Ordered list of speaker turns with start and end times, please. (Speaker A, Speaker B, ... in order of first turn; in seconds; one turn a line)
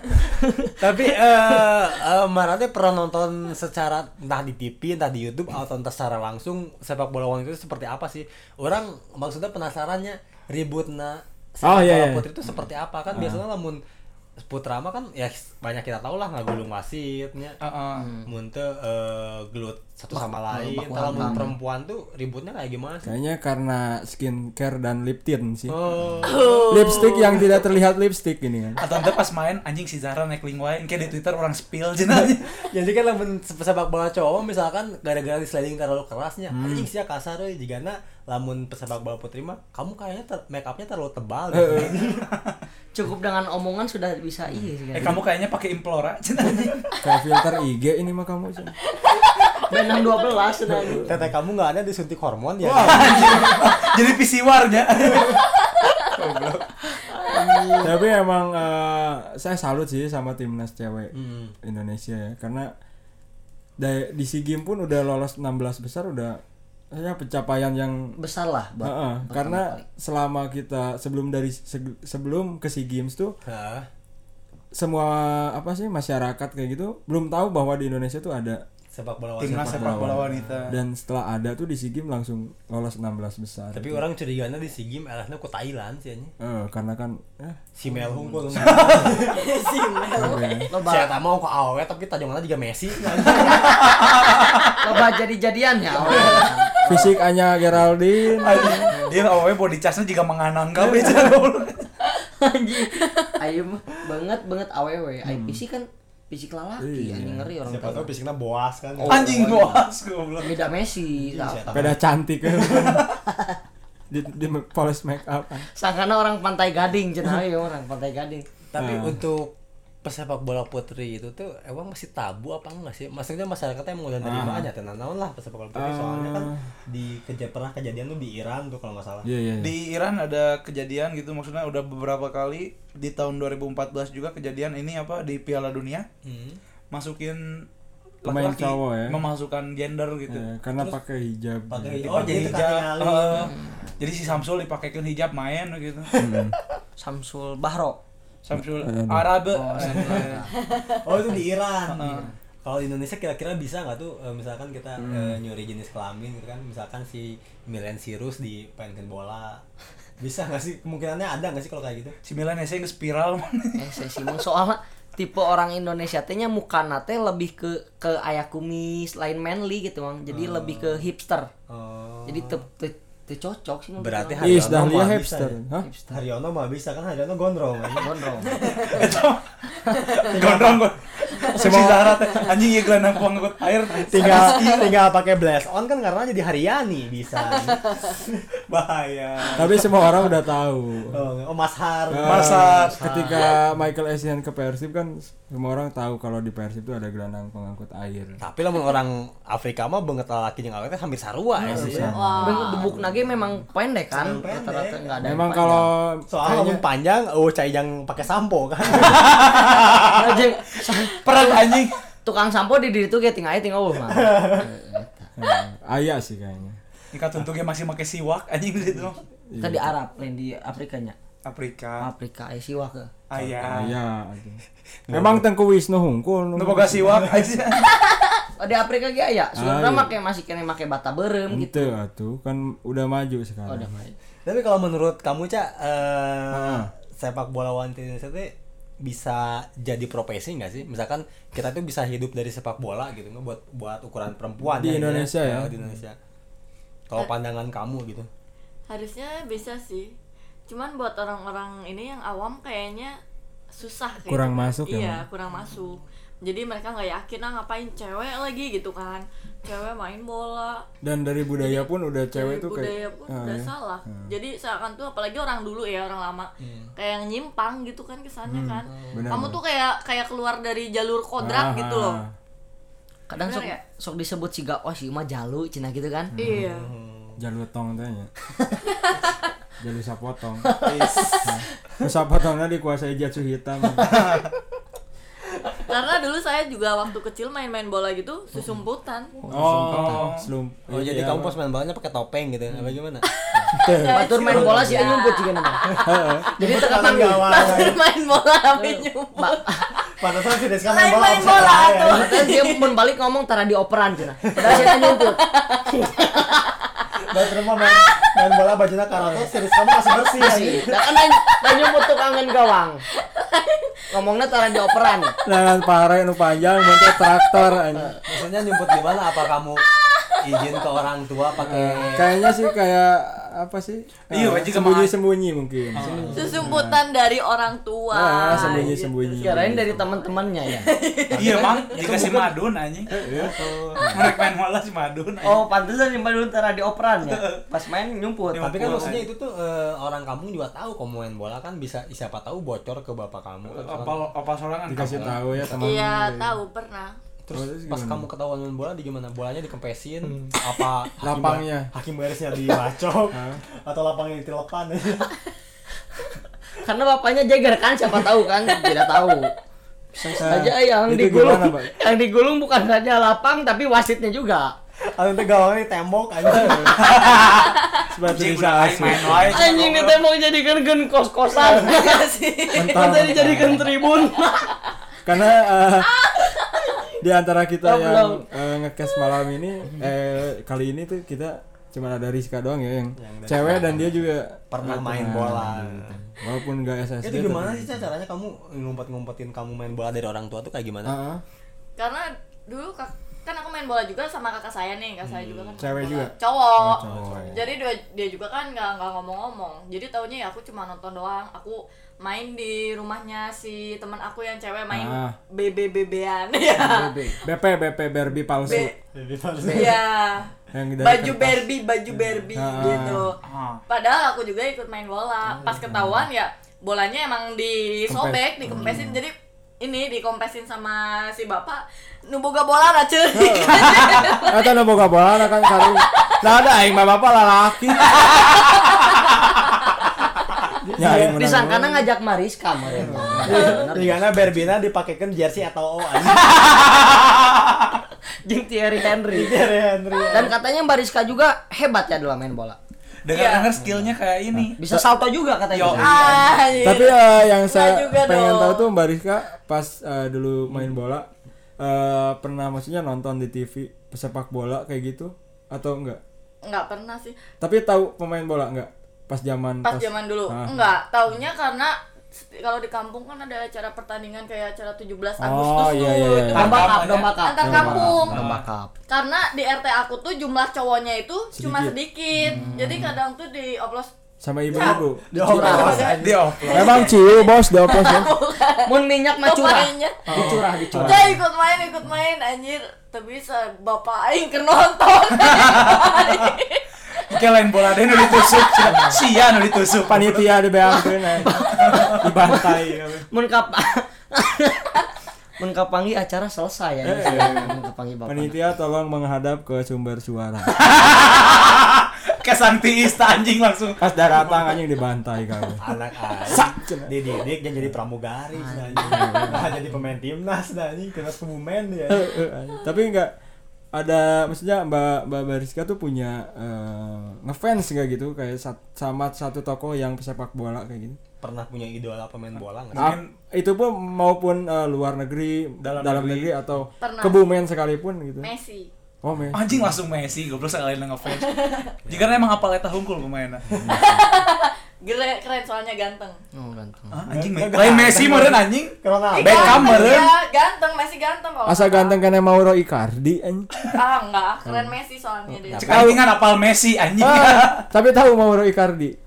Speaker A: 0.4-0.7
Speaker B: 0.8-13.8
Speaker C: 11.6-12.3
Speaker C: 13.1-13.4
Speaker B: 14.4-17.6
Speaker D: 17.6-18.1
Speaker A: 18.0-18.3
Speaker B: 18.2-23.1
Speaker A: 20.1-21.6
Speaker C: 21.1-21.5
Speaker C: 23.0-28.8
Speaker B: 25.7-27.3
Speaker E: 26.2-27.5
Speaker D: 28.8-32.5
Speaker B: 32.5-42.3
Speaker C: 36.5-36.9
Speaker C: 41.5-42.0
Speaker D: 41.8-42.5
Speaker A: 42.9-45.2
Speaker D: 44.9-46.8
Speaker C: 47.0-48.7
Speaker E: 49.0-50.0
Speaker A: 49.7-51.1
Speaker C: 50.7-51.3
Speaker B: 51.0-53.5
Speaker C: 52.6-53.4
Speaker D: 52.7-55.4
Speaker D: 56.0-56.7
Speaker A: 57.1-57.9
Speaker C: 57.8-62.7
Speaker B: 61.1-61.5
Speaker C: 63.8-66.4
Speaker C: 66.9-68.1
Speaker A: 68.2-69.8
Speaker C: 68.8-73.3
Speaker B: 73.4-73.9
Speaker C: 74.7-78.6
Speaker B: 78.9-80.7
Speaker D: 79.4-80.7
Speaker C: 79.5-84.0
Speaker B: 83.7-86.3
Speaker C: 86.4-87.6
Speaker B: 87.8-89.4
Speaker C: 88.2-89.2
Speaker D: 88.5-89.2
Speaker E: 89.3-90.7
Speaker C: 90.2-90.7
Speaker A: 90.7-91.2
Speaker B: 90.7-94.0
Speaker D: 93.3-94.7
Speaker A: 94.8-97.2
Speaker B: 96.0-96.6
Speaker C: 96.8-98.9
Speaker D: 98.4-101.9
Speaker A: 102.2-108.1
Speaker E: 102.9-103.3
Speaker C: 105.2-105.6
Speaker C: 106.8-107.5
Speaker B: 107.6-109.3
Speaker A: 109.0-109.8
Speaker D: 109.1-110.6
Speaker A: 110.4-111.9
Speaker B: 111.1-113.0
Speaker C: 111.7-113.0
Speaker A: 113.3-113.6
Speaker C: 114.1-115.7
Speaker A: 115.8-118.5
Speaker B: 118.7-129.3
Speaker C: 118.8-119.2
Speaker C: 124.2-124.7
Speaker C: 125.7-126.6
Speaker C: 129.2-129.7
Speaker D: 129.6-136.1
Speaker B: 136.2-136.6
Speaker D: 136.9-137.7
Speaker D: 138.2-140.9
Speaker C: 138.2-139.2
Speaker C: 140.3-142.6
Speaker B: 141.7-143.5
Speaker D: 142.0-146.1
Speaker A: 143.3-143.8
Speaker B: 146.1-146.5
Speaker C: 146.2-146.6
Speaker A: 147.0-148.0
Speaker D: 148.4-150.4
Speaker C: 148.6-149.3
Speaker A: 149.5-150.6
Speaker E: 150.6-151.0
Speaker B: 151.0-159.6
Speaker D: 151.9-152.3
Speaker A: 152.0-152.3
Speaker C: 155.0-155.4
Speaker B: 160.2-162.1
Speaker D: 162.2-163.9
Speaker A: 163.8-171.5
Speaker B: 170.3-171.1
Speaker B: 171.7-172.6
Speaker A: 172.2-174.8
Speaker B: 174.0-175.6
Speaker C: 174.4-175.8
Speaker A: 175.8-176.2
Speaker B: 176.1-178.6
Speaker A: 177.9-178.6
Speaker E: 178.4-179.1
Speaker D: 178.6-184.7
Speaker E: 179.9-180.3
Speaker B: 180.3-180.8
Speaker C: 181.6-182.2
Speaker B: 184.1-190.3
Speaker E: 184.2-184.9
Speaker E: 187.5-188.1
Speaker C: 189.6-191.2
Speaker B: 191.1-193.1
Speaker C: 192.1-198.4
Speaker D: 192.2-193.1
Speaker A: 192.7-193.5
Speaker B: 198.4-202.4
Speaker C: 201.6-202.6
Speaker A: 201.7-205.9
Speaker E: 202.1-203.0
Speaker B: 204.1-205.4
Speaker C: 205.2-206.8
Speaker B: 206.3-209.6
Speaker D: 208.9-210.4
Speaker A: 210.0-215.3
Speaker D: 211.0-212.0
Speaker B: 214.1-214.7
Speaker C: 215.4-216.8
Speaker D: 217.1-219.2
Speaker C: 219.5-219.9
Speaker A: 219.6-221.2
Speaker D: 221.4-222.1
Speaker A: 222.0-223.1
Speaker D: 223.3-223.9
Speaker B: 223.4-223.8
Speaker C: 223.7-227.2
Speaker B: 225.1-225.4
Speaker D: 226.6-227.9
Speaker B: 227.1-227.3
Speaker A: 228.6-231.9
Speaker C: 229.6-230.1
Speaker C: 231.5-233.9
Speaker A: 233.7-234.1
Speaker B: 234.4-246.2
Speaker C: 236.5-236.9
Speaker C: 244.6-245.7
Speaker B: 247.1-248.3
Speaker E: 248.9-250.1
Speaker E: 250.7-253.2
Speaker E: 253.7-260.8
Speaker C: 254.3-255.2
Speaker C: 261.0-264.3
Speaker E: 261.6-272.2
Speaker B: 266.6-266.9
Speaker C: 268.5-269.6
Speaker B: 268.9-269.3
Speaker C: 271.4-272.3
Speaker A: 273.3-276.3
Speaker E: 273.4-273.8
Speaker C: 276.3-276.7
Speaker E: 276.4-276.9
Speaker B: 276.5-277.4
Speaker C: 277.4-278.3
Speaker E: 278.9-279.3
Speaker C: 279.8-280.8
Speaker A: 280.6-281.4
Speaker D: 280.8-281.2
Speaker E: 281.1-281.4
Speaker C: 281.4-284.1
Speaker D: 284.1-284.4
Speaker E: 285.8-289.3
Speaker A: 289.4-290.2
Speaker C: 289.5-291.5
Speaker D: 289.9-290.5
Speaker B: 290.9-293.2
Speaker E: 293.2-299.9
Speaker C: 293.7-294.7
Speaker A: 294.1-295.9
Speaker B: 294.3-295.1
Speaker C: 296.1-296.5
Speaker A: 296.6-297.9
Speaker B: 296.6-298.0
Speaker A: 298.8-299.8
Speaker B: 300.2-302.3
Speaker E: 300.8-302.9
Speaker A: 301.4-306.6
Speaker B: 304.4-304.9
Speaker E: 304.6-307.1
Speaker B: 307.3-311.0
Speaker E: 307.9-308.3
Speaker A: 310.3-313.0
Speaker E: 311.3-311.9
Speaker E: 313.1-314.0
Speaker A: 314.1-315.3
Speaker C: 315.4-318.1
Speaker E: 316.9-317.3
Speaker B: 318.2-319.8
Speaker E: 319.8-320.8
Speaker B: 320.4-322.3
Speaker C: 321.6-327.0
Speaker E: 322.4-322.7
Speaker D: 324.3-325.1
Speaker D: 325.9-326.4
Speaker B: 326.0-326.6
Speaker A: 326.1-326.5
Speaker E: 326.3-329.4
Speaker C: 328.1-330.0
Speaker A: 328.5-330.9
Speaker E: 330.7-331.9
Speaker D: 331.4-333.1
Speaker A: 331.8-332.5
Speaker C: 333.1-333.5
Speaker B: 333.3-334.1
Speaker D: 334.0-335.6
Speaker A: 335.4-339.2
Speaker D: 337.2-337.6
Speaker D: 338.5-339.2
Speaker B: 338.5-344.3
Speaker D: 343.7-345.4
Speaker C: 344.9-346.6
Speaker B: 345.0-345.4
Speaker E: 345.8-347.1
Speaker B: 347.4-355.3
Speaker C: 347.5-348.3
Speaker C: 351.2-351.9
Speaker C: 353.3-353.6
Speaker A: 356.8-359.5
Speaker A: 360.1-364.7
Speaker C: 360.4-362.0
Speaker B: 365.1-367.4
Speaker C: 366.5-366.9
Speaker D: 366.8-370.2
Speaker C: 368.1-369.6
Speaker A: 369.5-372.3
Speaker E: 371.6-373.3
Speaker C: 372.7-373.9
Speaker A: 372.8-374.8
Speaker C: 375.2-376.1
Speaker E: 376.2-377.0
Speaker C: 377.2-388.1
Speaker A: 377.8-378.4
Speaker B: 383.2-384.2
Speaker B: 384.7-386.2
Speaker B: 387.2-391.1
Speaker C: 391.0-391.4
Speaker E: 392.0-407.3
Speaker B: 395.2-395.8
Speaker C: 395.8-397.6
Speaker B: 396.9-397.6
Speaker C: 404.9-405.4
Speaker A: 406.8-407.4
Speaker C: 407.4-408.9
Speaker E: 408.6-408.9
Speaker B: 409.1-410.0
Speaker E: 409.6-424.7
Speaker C: 410.7-411.6
Speaker C: 412.5-413.3
Speaker D: 413.4-413.8
Speaker C: 415.9-416.2
Speaker C: 418.1-419.2
Speaker C: 423.4-428.3
Speaker D: 423.9-424.3
Speaker E: 425.6-426.3
Speaker E: 428.1-429.7
Speaker B: 430.7-431.4
Speaker C: 431.0-432.1
Speaker A: 431.1-434.4
Speaker B: 432.9-436.8
Speaker C: 433.0-433.7
Speaker E: 433.5-433.8
Speaker D: 436.5-438.0
Speaker A: 438.4-439.6
Speaker B: 439.3-440.5
Speaker A: 440.3-442.8
Speaker D: 443.2-444.8
Speaker E: 443.3-443.7
Speaker B: 443.8-444.1
Speaker C: 444.5-445.0
Speaker A: 444.8-446.6
Speaker D: 445.7-446.4
Speaker E: 445.9-448.9
Speaker C: 446.8-451.3
Speaker C: 451.8-456.2
Speaker E: 456.6-457.4
Speaker C: 457.6-460.8
Speaker E: 459.8-468.4
Speaker C: 465.4-466.9
Speaker D: 466.5-467.4
Speaker A: 466.5-468.9
Speaker C: 467.6-468.5
Speaker D: 468.3-468.6
Speaker E: 469.1-474.1
Speaker C: 471.5-473.1
Speaker C: 474.4-476.1
Speaker B: 474.7-476.6
Speaker A: 475.3-476.1
Speaker E: 475.6-487.3
Speaker D: 476.1-477.1
Speaker C: 476.7-478.3
Speaker A: 478.9-481.4
Speaker C: 480.3-481.4
Speaker D: 485.4-486.5
Speaker D: 487.3-490.5
Speaker E: 488.1-489.1
Speaker C: 490.1-493.2
Speaker A: 491.4-495.0
Speaker D: 491.7-492.2
Speaker A: 495.6-498.6
Speaker C: 497.0-500.8
Speaker D: 500.7-504.0
Speaker C: 504.0-505.8
Speaker B: 505.8-512.3
Speaker C: 506.4-507.1
Speaker A: 508.5-509.7
Speaker C: 509.0-509.7
Speaker C: 512.1-513.3
Speaker C: 513.9-521.2
Speaker B: 521.4-523.1
Speaker D: 522.9-523.3
Speaker C: 522.9-528.5
Speaker D: 525.8-526.5
Speaker E: 527.0-527.4
Speaker E: 528.4-528.9
Speaker C: 529.2-529.9
Speaker D: 529.5-533.7
Speaker E: 531.3-531.9
Speaker B: 532.0-532.5
Speaker B: 533.7-534.0
Speaker C: 533.7-534.4
Speaker E: 533.9-536.4
Speaker A: 536.5-537.2
Speaker D: 537.1-540.3
Speaker B: 537.3-540.2
Speaker E: 539.3-542.1
Speaker C: 541.6-543.7
Speaker E: 543.9-546.1
Speaker C: 544.6-544.9
Speaker B: 545.7-546.2
Speaker D: 545.8-547.9
Speaker C: 545.8-546.2
Speaker C: 547.2-549.2